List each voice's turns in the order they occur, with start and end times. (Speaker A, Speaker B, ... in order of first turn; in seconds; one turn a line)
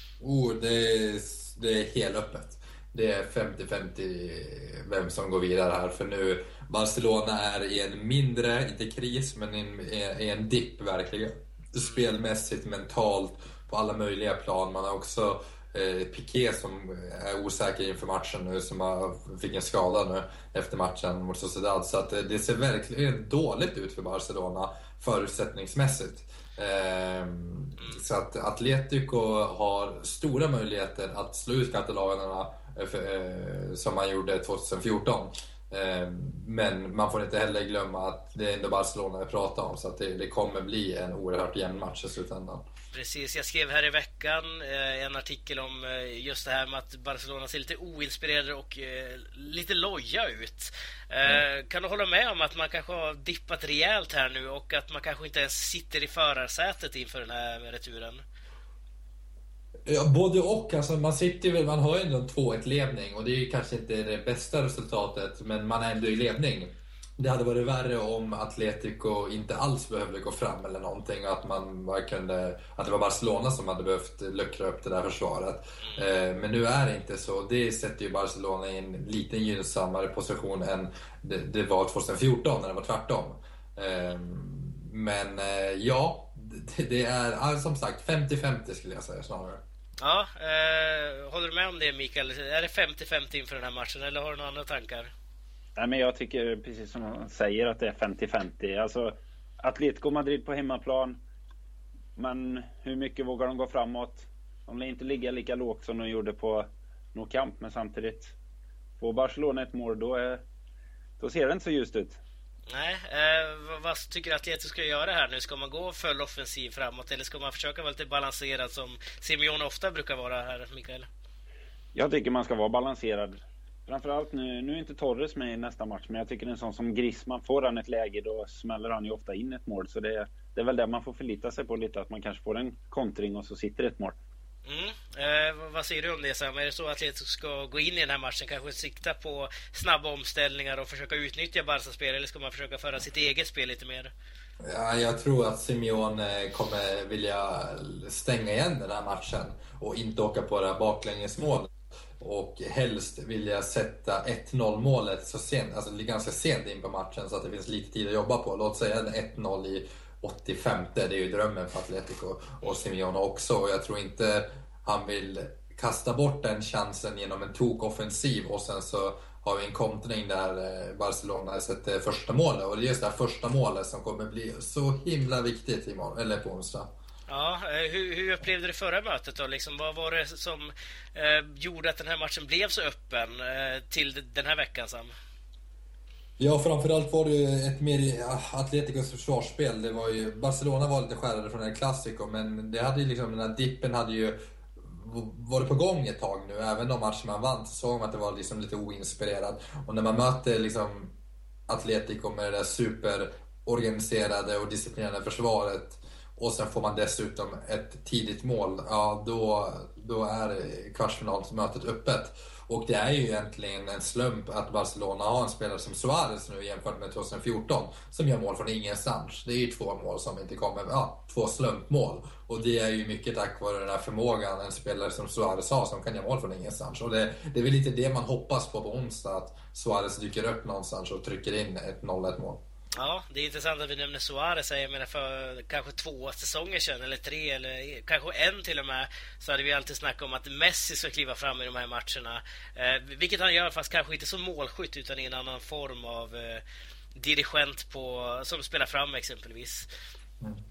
Speaker A: 0.2-42.6
Speaker B: 11.8-12.1
Speaker B: 42.9-58.2
Speaker A: 59.9-89.6
Speaker B: 90.0-95.1
Speaker C: 95.8-101.2
Speaker C: 102.2-108.3
Speaker C: 109.0-110.4
Speaker C: 111.2-112.2
Speaker B: 112.7-121.1
Speaker C: 121.9-134.2
Speaker B: 134.7-144.1
Speaker A: 144.6-176.9
Speaker B: 177.3-185.1
Speaker A: 186.4-201.1
Speaker A: 201.7-232.6
Speaker B: 232.9-246.6
Speaker B: 247.2-249.9